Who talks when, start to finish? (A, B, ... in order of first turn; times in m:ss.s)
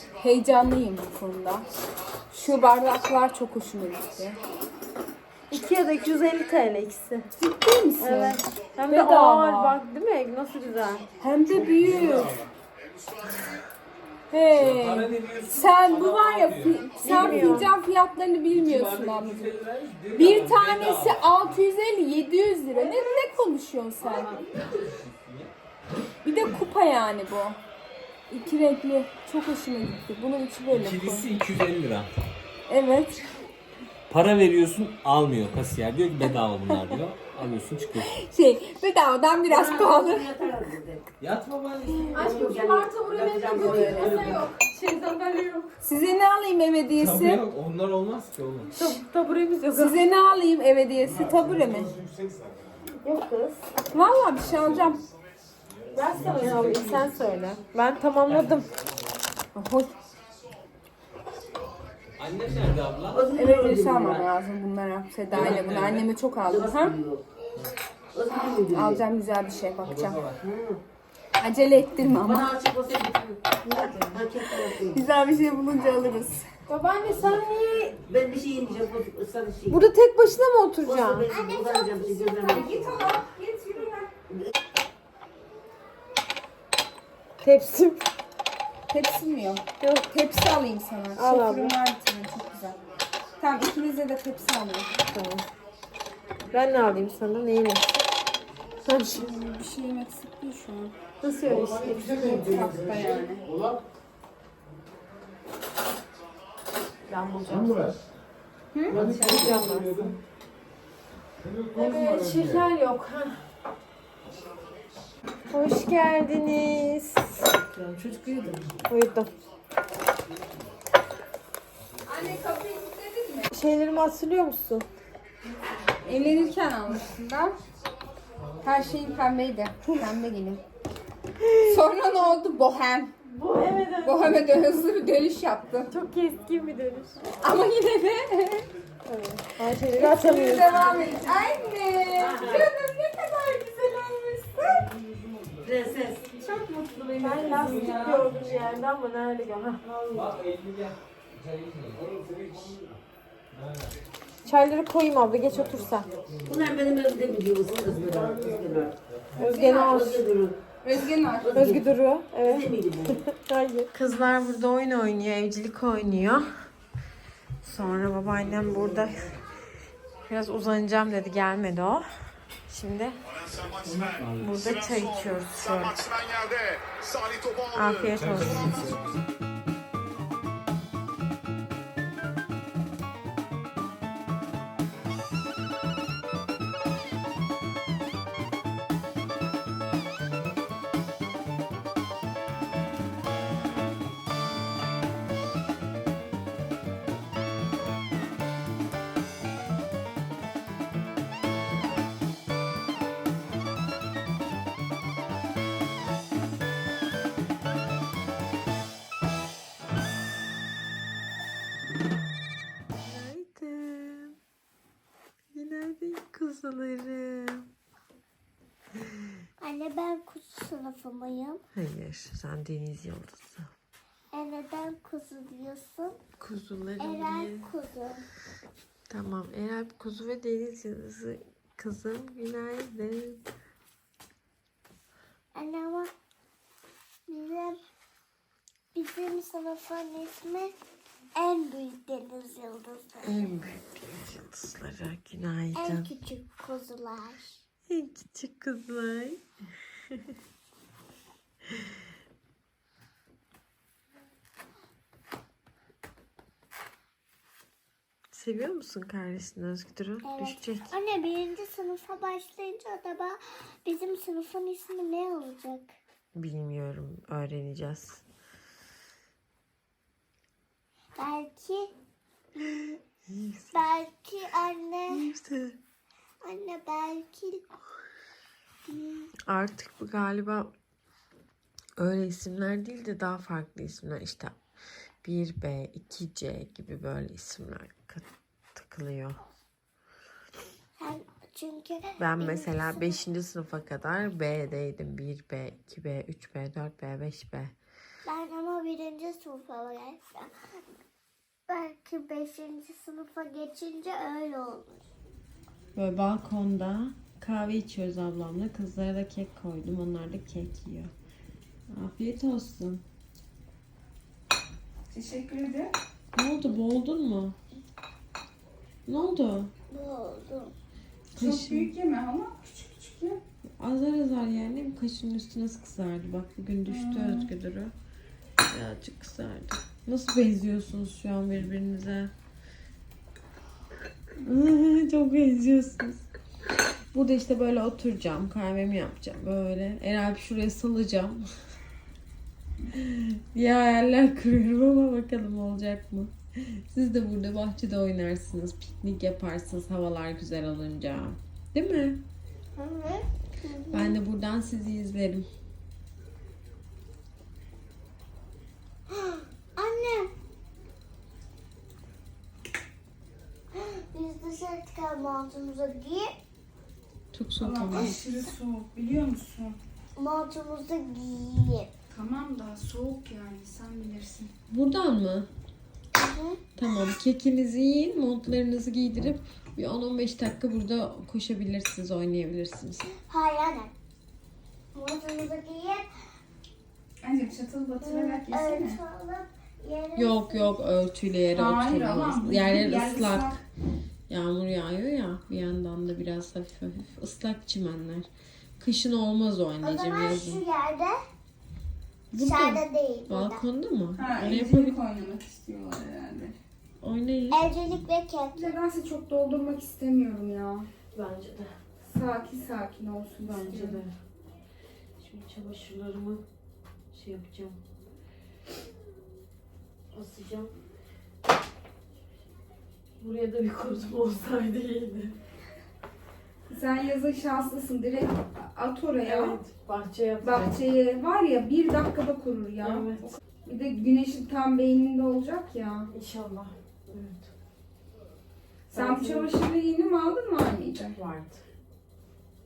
0:00.2-0:01.7 A
0:02.3-0:04.4 A
0:05.5-0:07.3 B
0:07.3-0:09.8 A
0:08.0-0:11.1 B
0:11.2-0:12.4 A
0:11.5-0:12.4 C
0:14.3-0:19.5 A
0:14.5-0:17.6 C
0:17.0-0:17.7 B
0:18.5-0:21.6 C
0:20.1-0:24.5 A
0:24.7-0:25.5 C
0:26.2-0:27.6 A
0:28.3-0:31.3 A
0:30.7-0:32.1 C
0:32.7-0:33.2 A
0:34.1-0:38.1 C
0:36.2-0:36.9 A
0:37.9-0:40.3 A
0:39.4-0:41.0 D
0:41.2-0:42.3 C
0:42.1-0:45.7 B
0:42.1-0:44.5 D
0:42.2-0:42.5 A
0:43.5-0:44.3 A
0:43.6-0:44.1 C
0:45.8-0:47.4 A
0:46.9-0:48.7 C
0:48.7-0:50.0 B
0:49.7-0:52.0 A
0:51.3-0:51.5 C
0:52.0-0:52.3 C
0:53.0-0:53.7 B
0:53.9-0:55.0 A
0:54.4-0:54.9 C
0:55.9-0:58.7 B
0:56.0-0:57.0 C
0:56.2-0:57.1 D
0:59.5-0:59.9 A
1:02.2-1:03.2 C
1:03.1-1:04.3 D
1:03.3-1:07.0 A
1:05.3-1:06.1 C
1:05.3-1:05.7 D
1:06.5-1:07.2 D
1:08.1-1:09.0 D
1:08.7-1:10.2 A
1:09.8-1:10.4 C
1:10.4-1:10.8 D
1:11.4-1:12.5 A
1:12.2-1:13.4 D
1:13.6-1:14.2 B
1:14.1-1:15.0 D
1:14.5-1:16.5 A
1:16.7-1:18.0 B
1:18.0-1:19.8 D
1:19.7-1:21.3 B
1:20.8-1:23.1 D
1:21.3-1:22.7 E
1:22.4-1:24.1 A
1:27.4-1:28.0 B
1:28.9-1:32.8 A
1:29.8-1:30.1 B
1:31.2-1:31.7 B
1:33.4-1:34.9 A
1:35.0-1:35.4 B
1:36.5-1:38.0 B
1:38.8-1:39.3 B
1:39.1-1:40.9 A
1:41.2-1:42.3 B
1:41.8-1:43.5 A
1:47.1-1:48.0 B
1:48.7-1:49.5 A
1:48.9-1:49.6 C
1:48.9-1:50.2 B
1:51.4-1:52.6 C
1:51.7-1:53.4 B
1:55.5-1:57.5 B
1:57.5-1:58.7 D
1:58.8-1:59.3 B
2:02.0-2:03.5 A
2:03.5-2:04.8 B
2:06.0-2:07.5 A
2:08.6-2:10.6 A
2:11.4-2:11.8 B
2:11.6-2:13.1 A
2:13.2-2:14.5 B
2:14.0-2:15.9 A
2:15.9-2:17.3 B
2:17.4-2:18.7 A
2:19.0-2:21.2 B
2:19.9-2:24.9 A
2:22.2-2:22.7 D
2:25.6-2:28.3 D
2:26.4-2:28.2 A
2:27.2-2:29.8 B
2:27.6-2:28.7 C
2:29.8-2:30.4 D
2:30.1-2:32.8 C
2:33.5-2:33.9 C
2:34.4-2:36.1 B
2:35.5-2:36.7 C
2:36.4-2:38.9 D
2:37.8-2:39.5 C
2:39.4-2:40.2 B
2:39.4-2:40.1 A
2:39.8-2:40.5 D
2:40.8-2:41.7 A
2:41.4-2:41.8 D
2:41.5-2:42.6 B
2:42.4-2:43.2 D
2:43.3-2:46.5 B
2:47.6-2:49.3 B
2:50.3-2:52.1 B
2:52.7-2:53.2 B
2:53.8-2:54.5 C
2:54.4-2:56.0 B
2:57.7-2:58.8 B
2:58.1-2:59.0 C
3:33.0-3:34.4 B
3:35.5-3:37.7 B
3:39.6-3:41.6 E
3:41.7-3:43.6 B
3:44.3-3:46.2 E
3:46.4-3:47.7 B
3:47.0-3:48.2 E
3:49.1-3:53.4 B
3:55.5-3:56.1 E
3:57.3-3:57.8 E
3:58.9-4:00.7 E
4:01.4-4:03.3 E
4:03.2-4:06.1 B
4:05.8-4:07.6 E
4:07.9-4:09.4 B
4:18.3-4:20.9 B
4:20.2-4:25.9 E
4:26.3-4:28.2 B
4:31.2-4:31.9 E
4:33.3-4:33.7 B
4:33.7-4:35.2 E
4:35.1-4:35.8 B
4:36.4-4:37.6 E
4:38.9-4:39.3 E
4:39.4-4:40.7 B
4:42.0-4:44.5 B
4:45.2-4:49.4 B
4:51.0-4:53.1 E
4:52.2-4:57.7 B
4:58.2-5:00.5 E
5:01.7-5:05.0 E
5:05.9-5:11.1 B
5:11.9-5:13.0 B
5:15.1-5:15.9 A
5:16.3-5:17.6 B
5:19.0-5:19.7 B
5:19.9-5:20.7 E
5:21.3-5:21.9 B
5:21.4-5:23.4 A
5:23.8-5:27.9 B
5:26.8-5:27.5 A
5:28.7-5:32.3 B
5:34.4-5:36.2 B
5:37.1-5:41.5 B
5:42.9-5:52.2 B
5:52.8-5:54.2 E
5:53.9-5:55.5 B
5:59.1-6:00.3 E
6:03.7-6:06.3 E
6:07.3-6:08.2 B
6:07.6-6:09.8 A
6:10.2-6:11.9 E
6:12.1-6:14.5 A
6:14.7-6:15.5 B
6:16.2-6:16.6 E
6:16.8-6:23.1 B
6:23.2-6:23.9 E
6:24.9-6:26.1 E
6:27.2-6:29.0 A
6:28.0-6:30.8 E
6:30.1-6:33.6 B
6:31.5-6:33.6 A
6:34.3-6:40.6 B
6:39.8-6:41.2 E
6:42.3-6:45.0 B
6:42.3-6:43.6 E
6:44.2-6:46.5 A
6:47.0-6:47.7 B
6:47.5-6:48.7 E
6:48.5-6:50.9 A
6:51.1-6:51.7 B
6:52.0-6:54.0 A
6:53.4-6:54.1 B
6:55.2-6:56.4 B
6:57.1-6:57.8 B
7:00.1-7:00.7 B
7:03.2-7:05.4 B
7:06.7-7:09.6 A
7:09.2-7:10.8 B
7:10.4-7:16.1 A
7:12.8-7:13.4 B
7:16.1-7:17.5 B
7:18.9-7:21.2 A
7:18.9-7:19.5 B
7:21.1-7:21.6 B